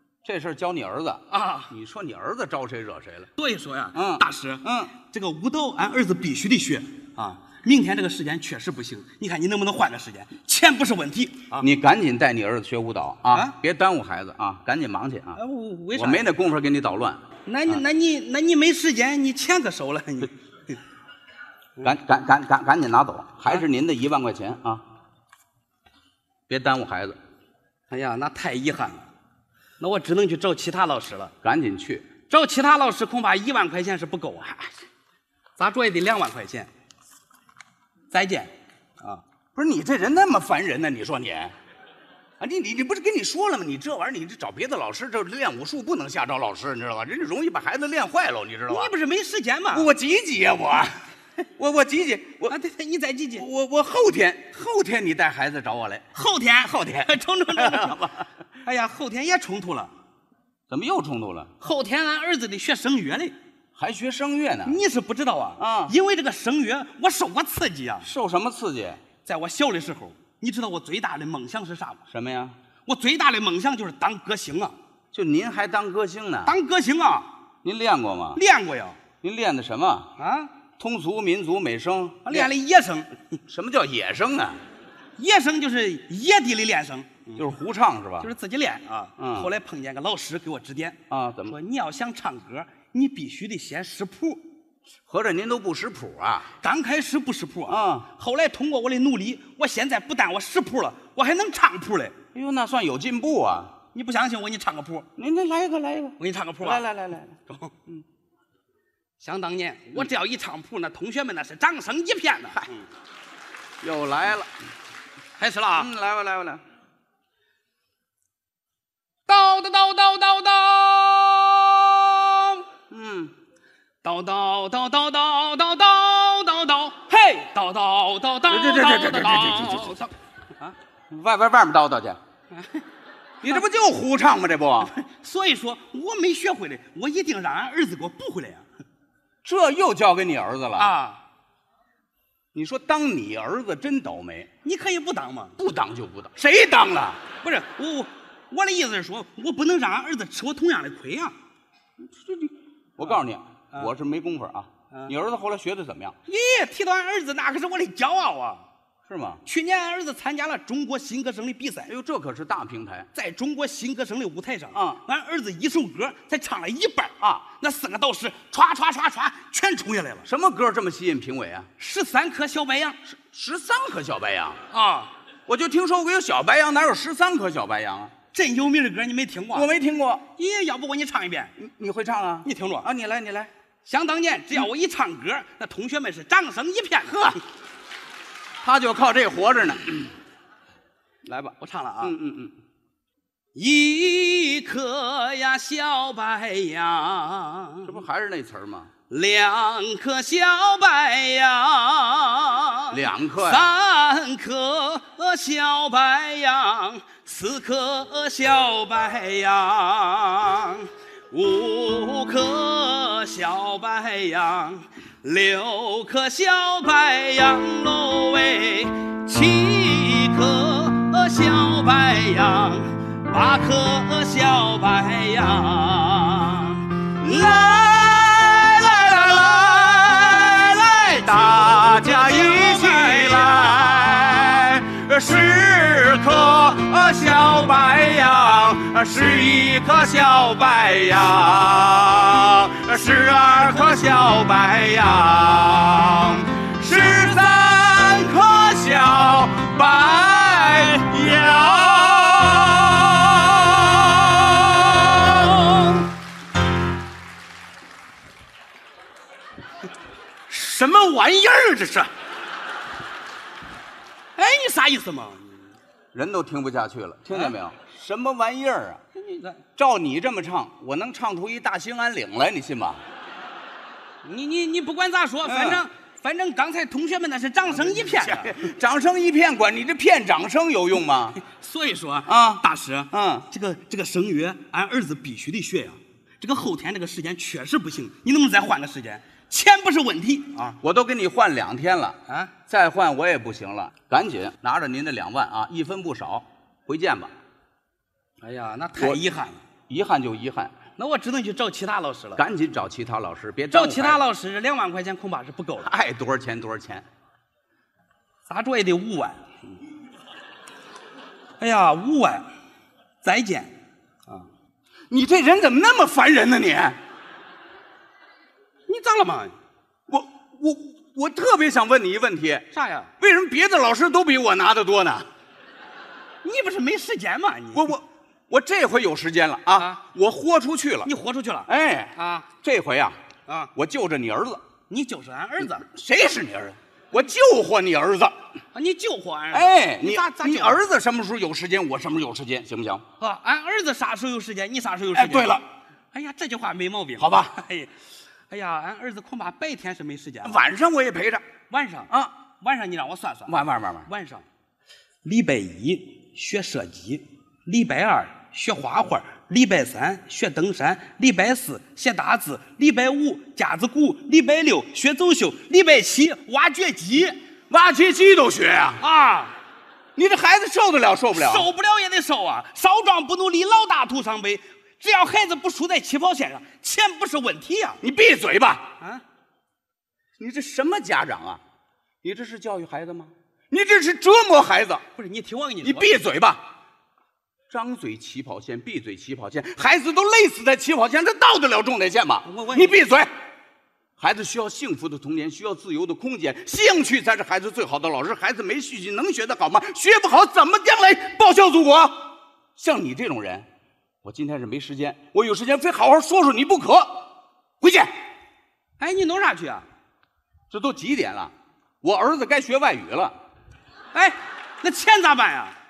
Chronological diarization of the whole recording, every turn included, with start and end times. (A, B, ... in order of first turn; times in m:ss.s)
0:00.2-0:03.3 A
0:01.3-0:01.7 B
0:03.4-0:11.7 B
0:03.9-0:04.9 A
0:11.6-0:15.4 A
0:15.3-0:16.2 B
0:15.9-0:17.2 A
0:17.4-0:20.3 B
0:21.8-0:24.8 A
0:26.5-0:27.2 A
0:27.9-0:29.1 B
0:29.8-0:31.3 B
0:31.4-0:32.0 A
0:32.3-0:34.6 B
0:35.6-0:36.7 B
0:38.1-0:39.2 B
0:39.5-0:41.5 A
0:42.4-0:48.9 A
0:48.7-0:49.9 B
0:49.7-0:51.0 A
0:51.6-0:52.6 A
0:52.5-0:53.4 B
0:53.4-0:56.0 A
0:56.1-0:58.0 B
0:56.8-0:58.3 A
0:58.6-0:59.9 B
1:00.7-1:01.5 A
1:01.6-1:03.3 B
1:03.8-1:04.8 A
1:04.6-1:08.1 B
1:05.6-1:05.9 A
1:08.0-1:09.0 A
1:09.2-1:12.0 B
1:12.1-1:12.6 A
1:12.8-1:14.7 B
1:15.1-1:16.5 A
1:16.4-1:17.3 B
1:17.6-1:18.4 A
1:18.3-1:19.0 B
1:19.2-1:20.1 A
1:20.2-1:20.5 B
1:20.8-1:22.5 A
1:22.2-1:23.1 B
1:23.5-1:24.6 A
1:25.2-1:27.4 B
1:27.4-1:28.3 A
1:28.2-1:34.4 B
1:29.2-1:29.5 A
1:31.1-1:31.6 A
1:35.1-1:36.5 A
1:36.6-1:42.2 B
1:37.7-1:38.1 A
1:42.3-1:43.7 A
1:43.9-1:45.1 B
1:45.2-1:47.4 A
1:46.2-1:46.8 B
1:49.2-1:52.8 B
1:53.8-1:54.5 A
1:55.4-1:55.9 B
1:55.7-1:56.6 A
1:59.3-2:02.6 B
2:02.9-2:03.3 A
2:04.0-2:10.7 B
2:08.5-2:10.1 A
2:11.1-2:12.2 A
2:12.5-2:12.8 B
2:13.4-2:14.9 A
2:14.8-2:18.6 B
2:19.4-2:20.9 A
2:20.8-2:21.2 B
2:22.5-2:24.5 A
2:24.6-2:25.6 B
2:25.6-2:27.2 A
2:27.4-2:31.4 B
2:32.0-2:36.2 A
2:36.2-2:38.6 B
2:39.0-2:39.4 A
2:39.4-2:41.9 B
2:41.9-2:43.1 A
2:43.1-2:50.3 B
2:44.7-2:45.0 A
2:50.2-2:51.7 A
2:51.8-2:53.0 B
2:53.0-2:54.6 A
2:54.7-2:55.1 B
2:55.5-2:58.1 A
2:58.3-2:59.7 B
2:59.5-3:00.2 A
3:00.4-3:01.5 B
3:01.6-3:03.5 A
3:02.4-3:02.9 B
3:03.8-3:07.4 B
3:08.6-3:10.1 A
3:11.2-3:12.6 A
3:11.6-3:12.1 B
3:13.6-3:17.9 B
3:17.8-3:18.9 A
3:19.1-3:53.8 B
3:22.9-3:23.7 A
3:47.2-4:13.6 A
4:13.7-4:16.1 B
4:20.5-4:22.1 B
4:24.4-4:25.7 B
4:26.1-4:29.0 A
4:27.3-4:27.5 B
4:29.1-4:29.6 B
4:29.8-4:33.0 A
4:34.2-4:38.7 B
4:35.4-4:35.8 A
4:37.7-4:41.4 A
4:41.4-4:50.8 B
4:42.2-4:43.4 A
4:50.8-4:57.3 A
4:58.4-4:59.6 B
4:59.9-5:00.7 A
5:01.0-5:02.4 B
5:02.4-5:04.2 A
5:03.7-5:05.9 B
5:05.8-5:07.0 A
5:08.5-5:09.4 B
5:11.6-5:12.4 B
5:13.2-5:13.7 B
5:15.1-5:17.0 A
5:18.9-5:19.5 B
5:20.1-5:22.7 A
5:22.7-5:23.1 B
5:23.2-5:25.3 A
5:26.4-5:27.9 B
5:27.7-5:31.1 A
5:29.8-5:30.0 B
5:31.0-5:32.5 B
5:31.7-5:33.2 A
5:33.7-5:34.6 A
5:34.9-5:35.8 B
5:35.8-5:38.3 A
5:38.7-5:40.8 B
5:39.5-5:43.0 A
5:43.2-5:45.6 B
5:45.1-5:45.6 A
5:46.1-5:47.9 B
5:47.2-5:47.6 A
5:48.5-5:50.6 B
5:50.4-5:51.4 A
5:51.7-5:52.1 B
5:52.6-5:54.4 B
5:53.5-5:54.1 A
5:55.2-6:07.4 B
6:07.7-6:09.0 A
6:09.0-6:09.6 B
6:10.2-6:11.7 A
6:11.3-6:18.0 B
6:18.0-6:18.8 A
6:20.4-6:21.6 A
6:22.2-6:25.0 A
6:25.2-6:26.1 B
6:25.8-6:26.6 A
6:27.7-6:33.3 A
6:32.4-6:33.0 B
6:34.2-6:42.2 A
6:42.8-6:43.7 A
6:44.2-6:47.2 A
6:47.8-6:48.1 A
6:49.0-6:49.8 B
6:50.7-6:53.3 A
6:54.1-6:55.8 B